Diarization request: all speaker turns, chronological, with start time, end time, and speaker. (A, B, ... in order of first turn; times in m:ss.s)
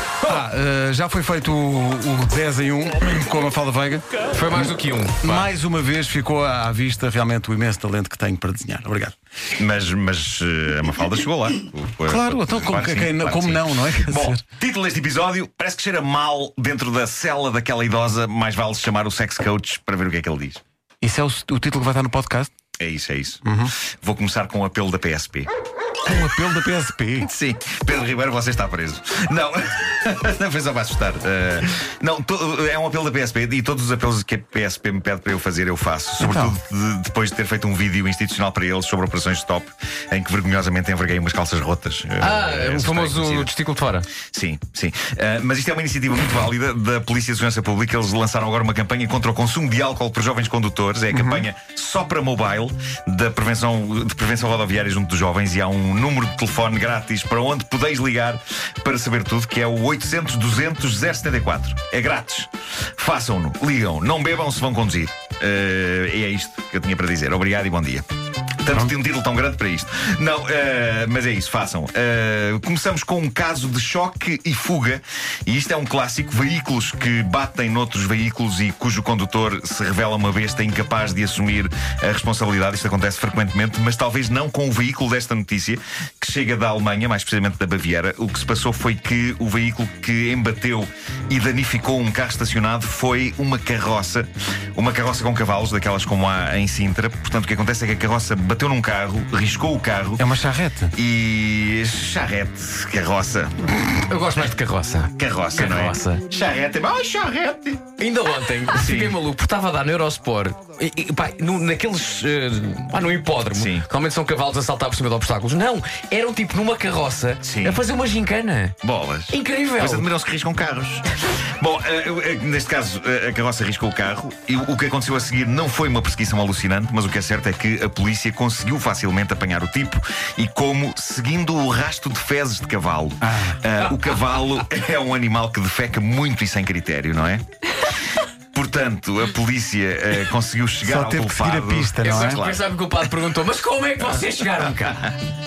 0:00.2-0:09.2 A
0:04.3-0:05.5 B
0:09.6-0:20.6 C
0:12.0-0:14.4 A
0:21.0-0:22.5 A
0:22.8-0:25.5 C
0:23.4-0:23.7 A
0:26.0-0:27.3 A
0:27.2-0:43.5 C
0:36.2-0:36.6 A
0:42.2-0:44.1 B
0:44.3-1:08.0 C
0:51.1-0:51.4 A
1:08.6-1:40.2 C
1:40.2-1:40.9 A
1:40.9-1:43.8 C
1:43.9-1:46.2 B
1:45.2-1:47.8 C
1:48.0-1:58.8 B
1:48.7-1:49.2 C
1:53.5-1:53.9 C
1:57.4-1:57.8 C
1:58.8-2:22.6 C
1:59.3-2:00.1 B
2:13.2-2:13.6 A
2:13.8-2:14.2 B
2:20.8-2:22.4 A
2:22.0-2:25.1 B